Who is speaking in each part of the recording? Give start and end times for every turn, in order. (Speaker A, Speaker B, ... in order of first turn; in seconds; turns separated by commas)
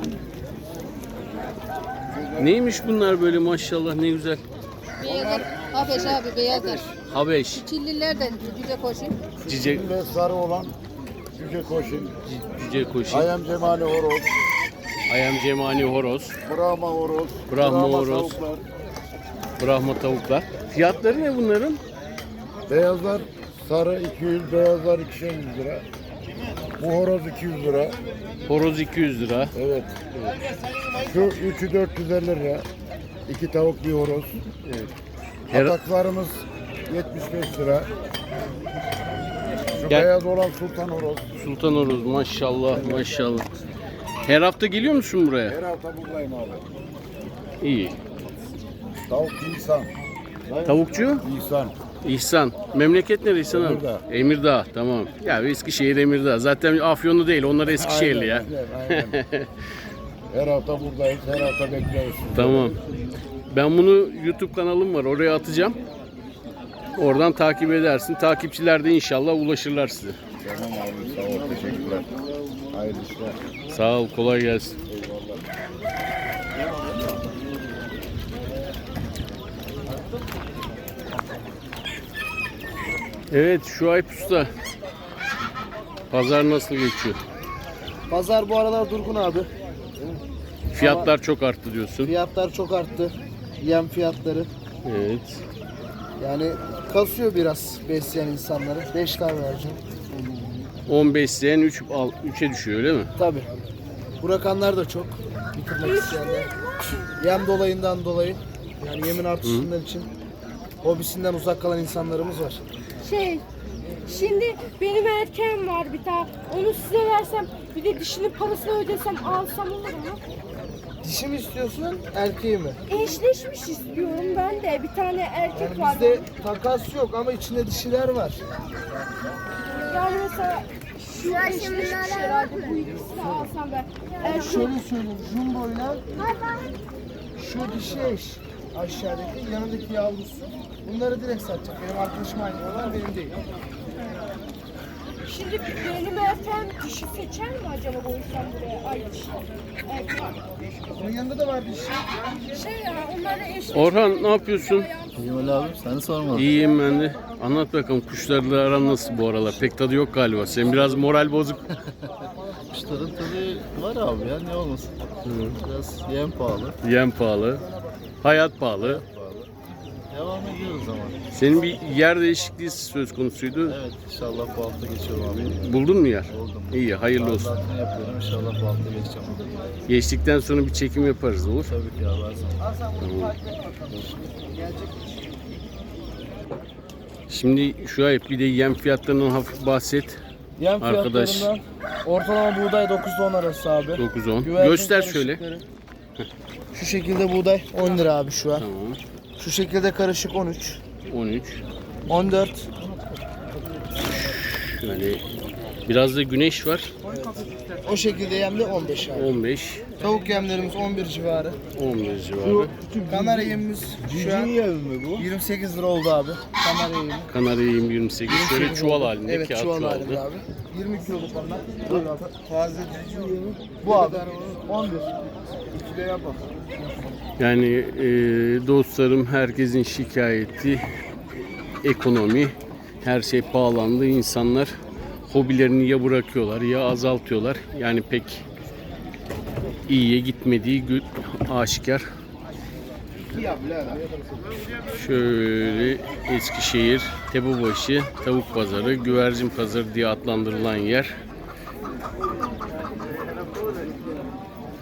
Speaker A: 2.1-2.5, Speaker B: 2.4-4.4, Speaker C: 5.0-6.9, Speaker A: 5.2-5.7, Speaker A: 6.5-6.8, Speaker B: 7.0-7.7, Speaker C: 7.5-9.2, Speaker A: 9.4-10.8, Speaker B: 9.5-9.9, Speaker A: 11.3-12.2, Speaker B: 12.3-13.3, Speaker A: 13.1-14.3, Speaker B: 15.1-16.4, Speaker A: 16.4-18.6, Speaker B: 17.5-18.4, Speaker B: 19.6-21.8, Speaker A: 22.7-25.9, Speaker A: 26.8-28.0, Speaker B: 28.5-29.5, Speaker A: 29.5-29.9, Speaker A: 31.0-32.7, Speaker A: 33.3-34.4, Speaker B: 34.6-34.9, Speaker B: 35.5-35.8, Speaker A: 35.5-37.9, Speaker A: 39.8-41.2, Speaker B: 41.4-43.5, Speaker B: 44.2-45.6, Speaker A: 45.5-46.6, Speaker B: 47.6-48.0, Speaker A: 49.1-49.9, Speaker A: 50.5-51.7, Speaker B: 50.7-51.2, Speaker B: 52.0-59.5, Speaker A: 53.5-54.0, Speaker A: 57.7-59.2, Speaker A: 60.3-62.8, Speaker B: 62.3-62.8, Speaker B: 63.5-65.8, Speaker B: 67.0-70.2, Speaker A: 70.4-72.1, Speaker A: 72.7-73.4, Speaker B: 73.7-74.8, Speaker A: 74.9-75.4, Speaker B: 83.3-84.5, Speaker B: 86.1-87.2, Speaker D: 88.1-89.5, Speaker B: 90.7-92.1, Speaker D: 90.8-91.1, Speaker D: 92.0-94.5, Speaker B: 94.8-95.4, Speaker D: 96.2-99.8, Speaker B: 100.9-103.1, Speaker D: 103.2-103.5, Speaker D: 104.2-106.4, Speaker E: 105.8-107.1, Speaker D: 107.2-110.1, Speaker B: 109.4-109.7, Speaker D: 110.8-112.6, Speaker E: 113.0-113.4, Speaker E: 114.1-120.2, Speaker D: 121.0-122.8, Speaker E: 122.9-126.3, Speaker D: 125.5-128.4, Speaker E: 129.7-134.7, Speaker D: 134.5-136.1, Speaker E: 136.2-136.7, Speaker D: 137.4-143.3, Speaker E: 145.2-150.4, Speaker D: 151.0-152.1, Speaker E: 152.5-155.1, Speaker B: 153.7-154.9, Speaker F: 155.1-156.6, Speaker B: 156.3-161.6, Speaker F: 162.7-164.9, Speaker B: 165.2-165.6, Speaker F: 165.6-166.8, Speaker B: 166.8-167.7, Speaker B: 168.2-169.0, Speaker F: 168.8-169.5, Speaker F: 170.1-171.2, Speaker B: 171.3-173.8, Speaker F: 173.7-179.6, Speaker B: 175.3-177.5, Speaker B: 179.9-181.7, Speaker F: 181.6-182.7, Speaker D: 182.6-185.3, Speaker B: 183.0-183.3, Speaker B: 187.3-190.2, Speaker D: 190.6-195.7, Speaker B: 190.8-191.5, Speaker B: 194.0-195.4, Speaker D: 196.7-198.7, Speaker B: 198.6-199.0, Speaker D: 199.4-200.8, Speaker B: 201.1-201.6, Speaker D: 202.1-202.7, Speaker B: 204.7-205.2, Speaker B: 205.9-206.9, Speaker D: 207.8-209.3, Speaker B: 209.2-210.0, Speaker D: 210.0-211.6, Speaker B: 211.8-212.7, Speaker D: 213.0-214.6, Speaker F: 214.2-215.2, Speaker D: 215.2-217.3, Speaker B: 217.3-220.2, Speaker D: 218.3-222.3, Speaker D: 223.8-225.2, Speaker D: 225.7-227.1, Speaker B: 227.4-230.8, Speaker B: 231.8-234.7, Speaker B: 235.3-238.4, Speaker B: 239.9-242.1, Speaker B: 244.9-251.1